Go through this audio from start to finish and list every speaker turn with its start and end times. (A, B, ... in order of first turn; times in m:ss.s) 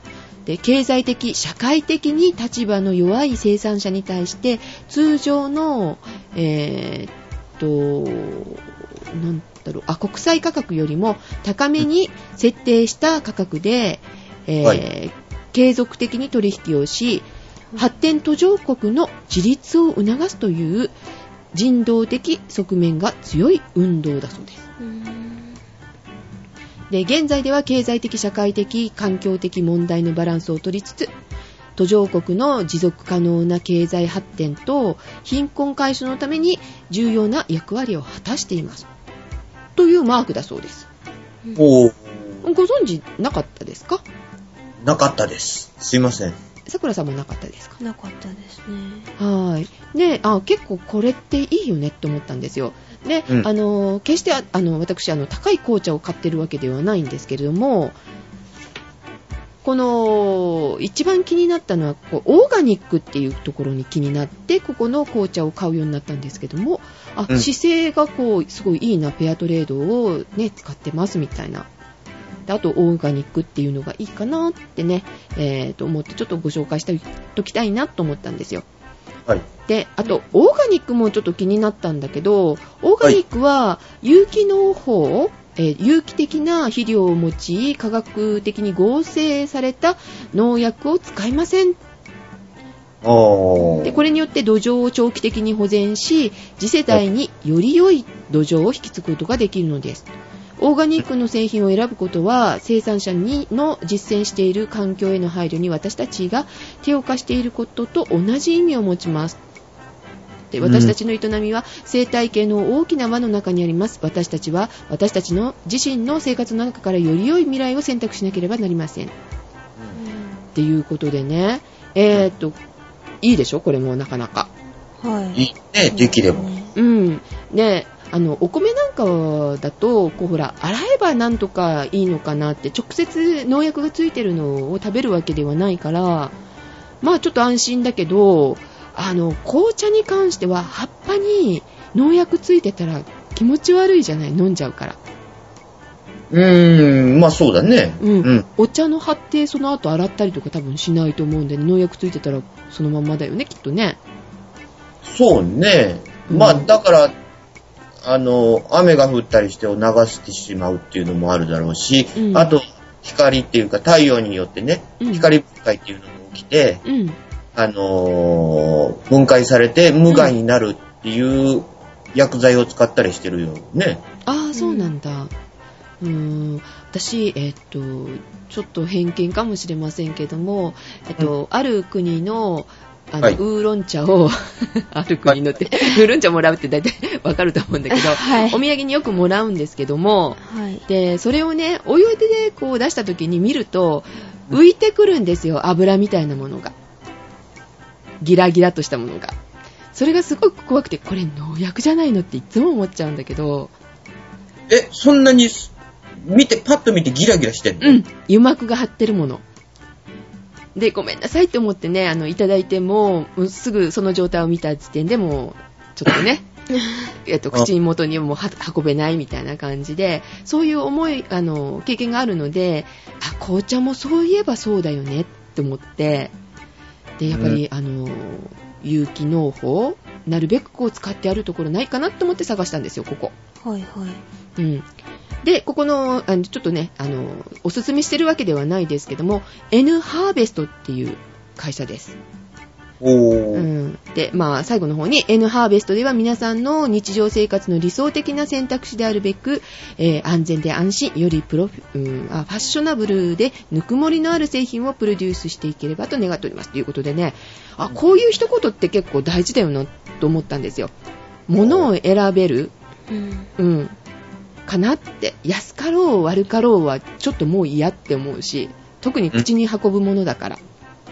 0:00.4-0:20.9 A
0:21.5-0:24.6 A
0:24.8-0:25.6 B
0:26.9-0:31.1 A
0:31.8-0:38.9 A
0:39.8-0:40.8 A
0:41.6-0:42.4 C
0:42.4-0:44.0 A
0:44.8-0:46.4 C
0:46.7-0:47.8 A
0:47.8-0:49.1 B
0:49.2-0:58.0 A
0:59.6-1:11.7 A
1:12.5-1:18.6 A
1:19.7-1:31.8 A
1:33.0-1:34.0 C
1:33.8-1:40.1 A
1:40.6-1:49.4 A
1:50.5-1:59.1 A
1:50.6-1:50.9 C
2:00.0-2:00.4 B
2:00.5-2:02.6 A
2:03.2-2:04.5 A
2:05.0-2:06.7 B
2:05.3-2:06.5 C
2:06.8-2:16.3 A
2:17.0-2:25.0 A
2:26.3-2:28.4 C
2:28.0-2:34.0 A
2:35.0-2:37.1 C
2:36.3-2:36.7 A
2:38.0-2:46.8 C
2:42.2-2:42.5 A
2:45.0-2:45.3 A
2:46.8-2:47.2 A
2:47.6-2:54.0 C
2:54.2-2:55.3 A
2:54.5-2:54.9 B
2:56.0-3:16.7 A
3:07.9-3:08.6 B
3:10.4-3:10.8 B
3:18.2-3:19.4 A
3:19.9-3:23.7 A
3:24.7-3:28.0 C
3:27.8-3:29.4 A
3:30.7-3:36.4 A
3:37.2-3:46.3 A
3:47.2-3:53.3 A
3:47.3-3:47.6 C
3:53.6-3:54.2 B
3:54.6-3:54.8 A
3:55.4-4:02.2 A
4:03.0-4:03.7 C
4:03.5-4:20.9 A
4:21.5-4:22.7 A
4:21.6-4:21.9 C
4:23.1-4:23.5 B
4:23.6-4:24.0 A
4:24.7-4:30.6 A